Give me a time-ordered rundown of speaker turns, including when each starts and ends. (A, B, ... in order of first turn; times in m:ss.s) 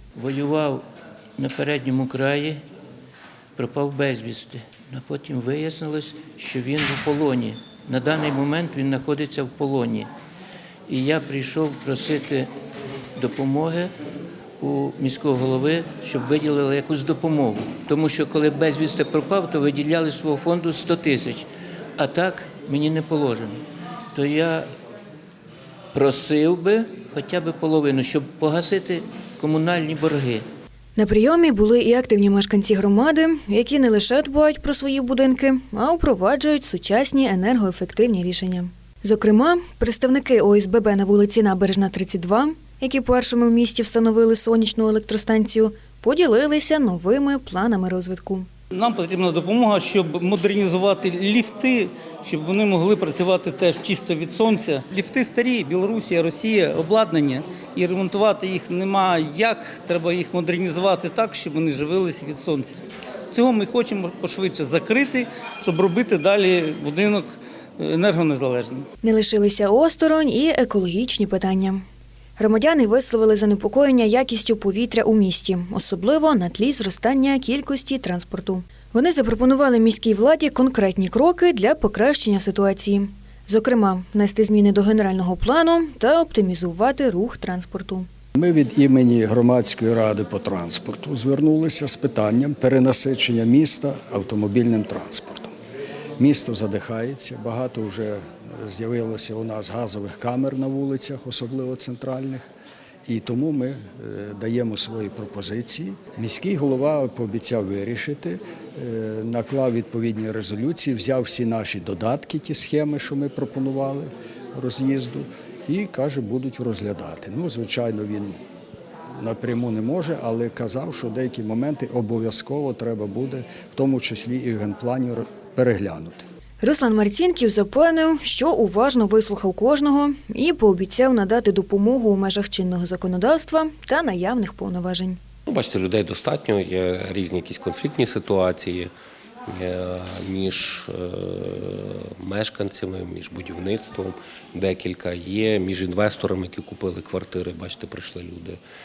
0:00.2-0:00.8 A
0:01.4-0:02.6 A
0:03.6-0:10.1 A
0:10.9-0:12.5 A
0:13.2-0:13.9 A
0:14.6-0:23.6 A
0:24.1-0:24.7 A
0:25.9-0:30.4 A
0:31.0-0:48.5 B
0:48.7-1:02.8 C
1:03.3-1:08.9 C
1:09.0-1:11.8 B
1:12.4-1:28.1 B
1:28.4-1:35.5 D
1:36.2-1:42.4 D
1:43.0-1:58.4 D
1:59.2-2:06.2 D
2:06.6-2:15.2 B
2:15.5-2:18.9 E
2:19.5-2:28.6 E